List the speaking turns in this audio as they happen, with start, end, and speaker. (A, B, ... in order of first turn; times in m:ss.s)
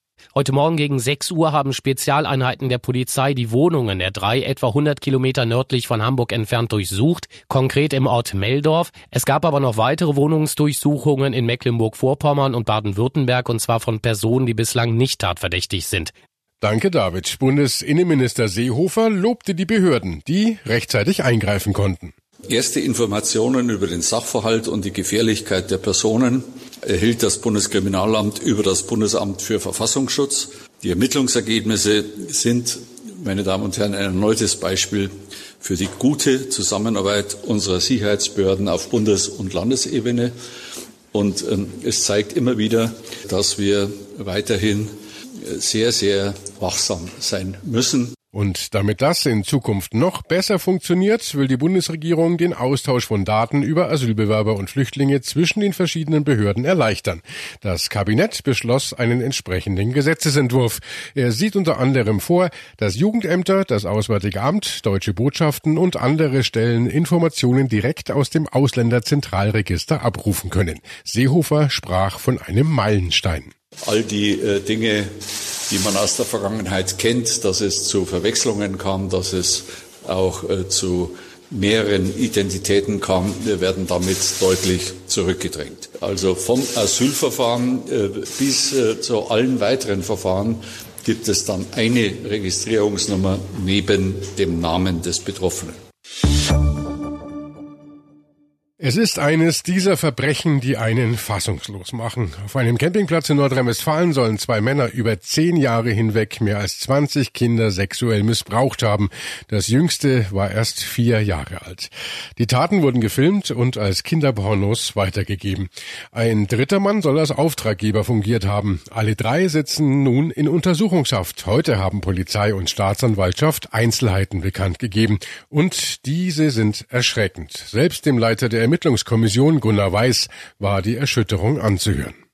0:00.3-0:16.1 A
0:16.6-0:22.1 B
0:22.5-0:40.3 C
0:41.1-0:44.9 C
0:45.5-0:48.1 C
0:48.3-1:13.5 B
1:13.8-1:15.1 C
1:15.7-1:35.8 C
1:38.8-2:12.1 B